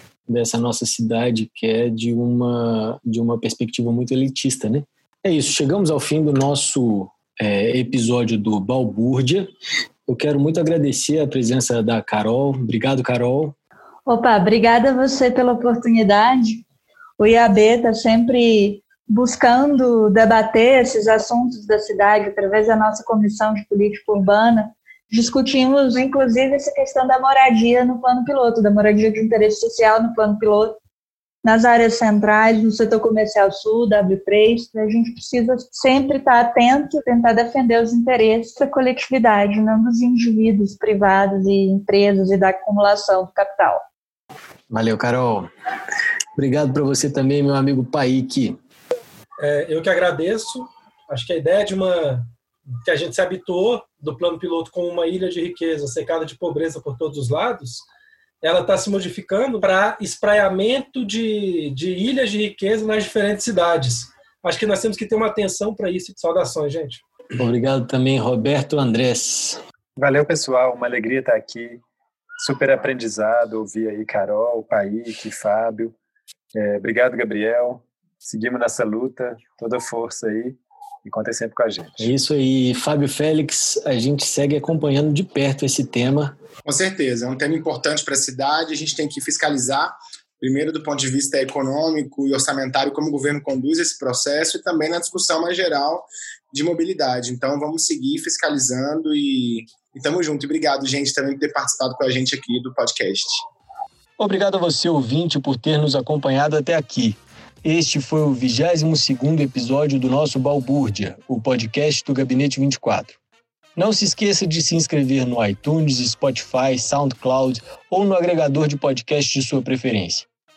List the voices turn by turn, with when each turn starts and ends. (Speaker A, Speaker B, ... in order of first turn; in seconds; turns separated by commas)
Speaker A: 0.3-9.5, Speaker A: 10.1-13.6, Speaker B: 14.1-16.6, Speaker B: 17.2-30.8, Speaker B: 31.4-43.8, Speaker A: 44.7-45.5, Speaker A: 46.4-48.6, Speaker C: 49.4-52.3, Speaker C: 52.8-57.9, Speaker C: 58.4-67.0, Speaker A: 67.4-69.6, Speaker D: 70.0-71.8, Speaker D: 72.4-76.0, Speaker D: 76.5-82.1, Speaker A: 82.0-86.3, Speaker E: 86.7-103.5, Speaker A: 104.2-113.2, Speaker A: 113.8-120.3